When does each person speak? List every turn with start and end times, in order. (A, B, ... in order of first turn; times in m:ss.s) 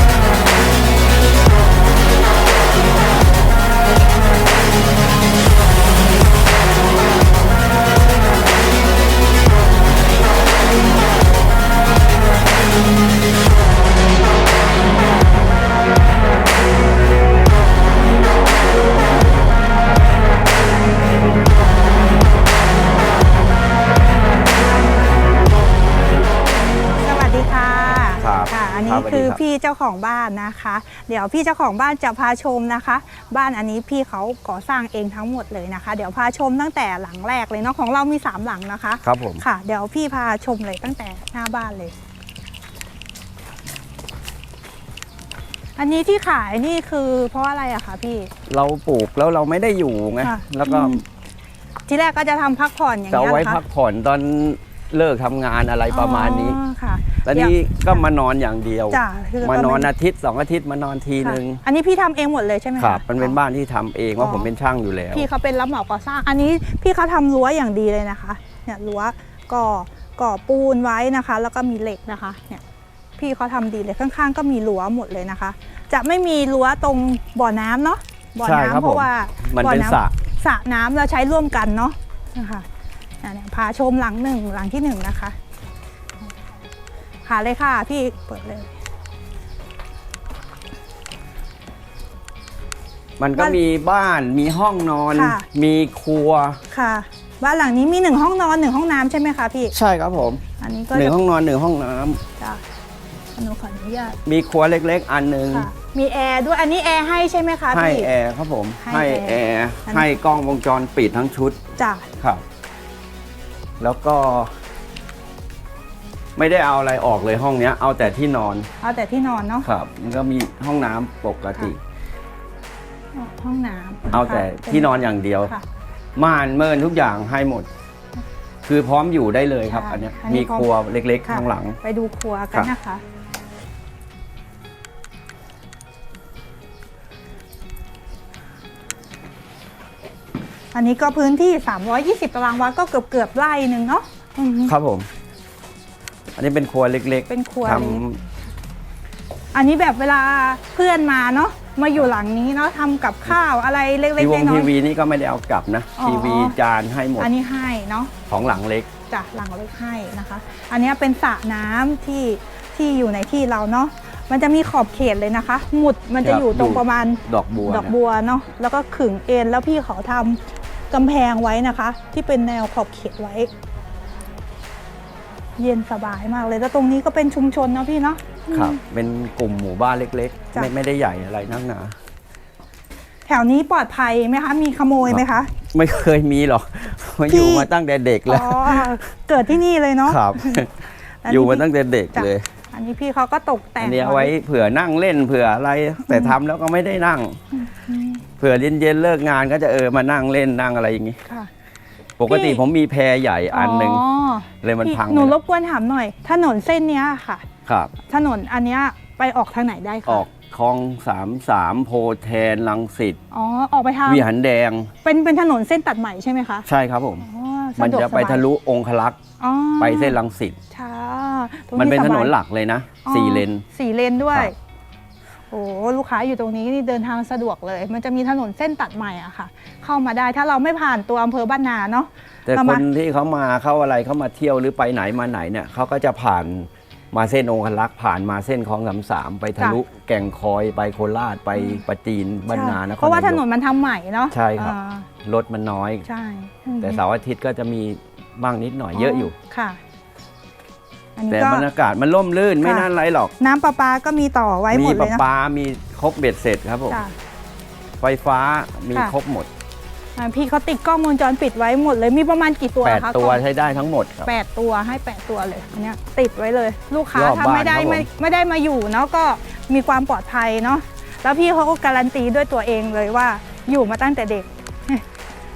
0:27.0-0:41.9 A
0:28.2-0:29.4 B
0:39.0-0:39.4 B
0:45.8-0:48.3 A
0:48.5-0:51.0 B
0:50.2-0:51.0 A
0:51.9-0:53.6 A
0:53.1-0:56.6 B
0:55.9-0:58.0 A
0:57.2-1:01.6 B
0:58.9-0:59.9 A
1:01.2-1:03.4 A
1:02.8-1:05.3 B
1:04.2-1:04.5 A
1:05.1-1:12.6 A
1:13.2-1:22.7 A
1:18.4-1:20.1 B
1:23.2-1:25.4 A
1:27.2-1:28.7 A
1:33.2-1:36.6 B
1:35.1-1:35.5 A
1:36.7-1:39.8 A
1:39.7-1:40.4 B
1:40.6-1:41.2 A
1:40.9-1:42.2 B
1:42.4-1:42.6 A
1:43.4-1:44.2 A
1:44.2-1:45.7 B
1:45.5-1:48.1 A
1:47.7-1:51.6 B
1:48.8-1:50.2 A
1:51.8-1:52.1 A
1:52.2-1:52.4 B
1:53.8-1:54.5 B
1:56.4-1:58.7 B
1:58.8-1:59.7 A
1:59.6-2:01.8 B
2:03.2-2:05.6 A
2:04.1-2:05.5 B
2:06.2-2:07.7 B
2:08.6-2:11.8 B
2:09.7-2:10.7 A
2:11.3-2:13.0 A
2:20.7-2:24.7 A
2:24.7-2:25.1 B
2:26.3-2:28.2 B
2:27.3-2:28.0 A
2:29.5-2:34.7 A
2:34.2-2:37.3 B
2:36.0-2:36.6 A
2:37.2-2:38.1 A
2:38.3-2:38.9 B
2:39.1-2:53.5 A
2:46.2-2:48.0 B
2:55.6-2:58.8 A
2:58.5-3:02.0 B
3:03.3-3:05.5 A
3:05.1-3:09.0 B
3:07.3-3:07.7 A
3:08.3-3:10.7 A
3:10.0-3:12.5 B
3:11.2-3:14.3 A
3:13.8-3:17.4 B
3:16.0-3:16.4 A
3:17.6-3:18.2 A
3:18.4-3:21.2 B
3:22.2-3:24.0 B
3:22.3-3:22.6 A
3:23.5-3:27.5 A
3:24.6-3:25.3 B
3:27.7-3:27.9 B
3:28.1-3:30.3 A
3:30.0-3:33.2 B
3:33.3-3:34.3 A
3:34.0-3:34.9 B
3:35.0-3:36.7 A
3:36.7-3:37.3 B
3:37.2-3:38.4 A
3:37.8-3:39.2 B
3:39.4-3:40.2 A
3:39.8-3:40.6 B
3:40.7-3:42.3 A
3:41.8-3:43.6 B
3:43.0-3:44.6 A
3:45.5-3:52.8 A
3:52.5-4:03.4 B
4:01.6-4:01.8 A
4:02.5-4:05.1 A
4:04.3-4:06.0 B
4:06.0-4:07.0 A
4:06.8-4:09.3 B
4:09.0-4:09.8 A
4:11.2-4:11.7 A
4:11.3-4:13.3 B
4:12.6-4:15.2 A
4:14.7-4:17.0 B
4:16.9-4:17.1 A
4:18.0-4:19.5 B
4:20.2-4:23.4 A
4:22.8-4:24.3 B
4:24.2-4:35.0 A
4:27.1-4:28.1 B